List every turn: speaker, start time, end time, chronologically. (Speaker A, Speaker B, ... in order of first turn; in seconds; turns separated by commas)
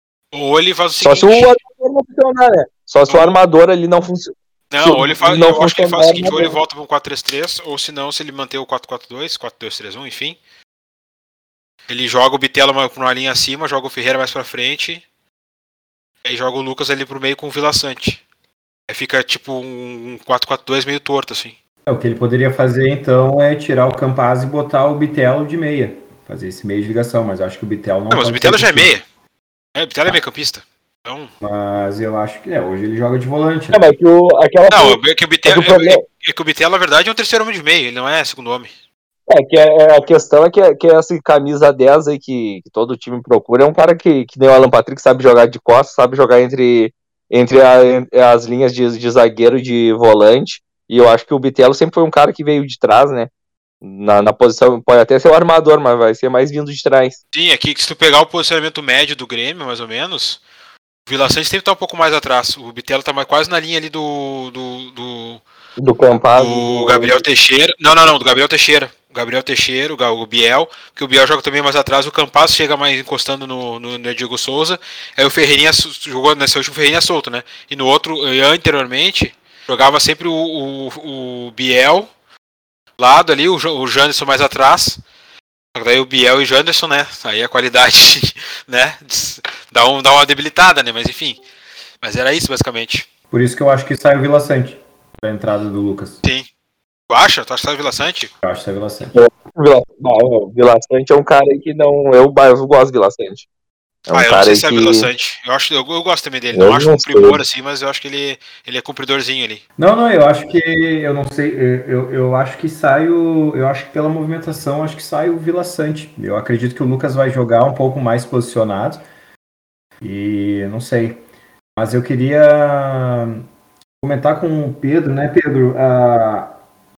Speaker A: 0.3-1.6, Speaker B: 1.0-6.6, Speaker A: 3.1-3.4, Speaker A: 4.7-10.4, Speaker A: 11.9-15.0, Speaker A: 16.2-18.2, Speaker A: 18.9-21.6, Speaker C: 21.9-28.9, Speaker A: 28.1-29.0, Speaker A: 29.8-31.3, Speaker C: 31.4-33.9, Speaker B: 33.7-36.0, Speaker A: 34.7-38.7, Speaker B: 39.3-53.3, Speaker B: 53.8-57.2, Speaker A: 57.3-60.4, Speaker A: 61.1-65.4, Speaker B: 65.8-67.2, Speaker A: 66.3-82.1, Speaker A: 83.0-85.0, Speaker A: 85.7-91.4, Speaker A: 92.0-93.1, Speaker C: 93.3-96.2, Speaker A: 97.1-98.3, Speaker C: 98.4-99.1, Speaker B: 99.1-103.5, Speaker B: 104.1-105.1, Speaker A: 104.1-109.6, Speaker B: 106.5-107.4, Speaker C: 109.8-119.0, Speaker C: 120.0-121.2, Speaker C: 121.8-123.4, Speaker C: 124.0-126.5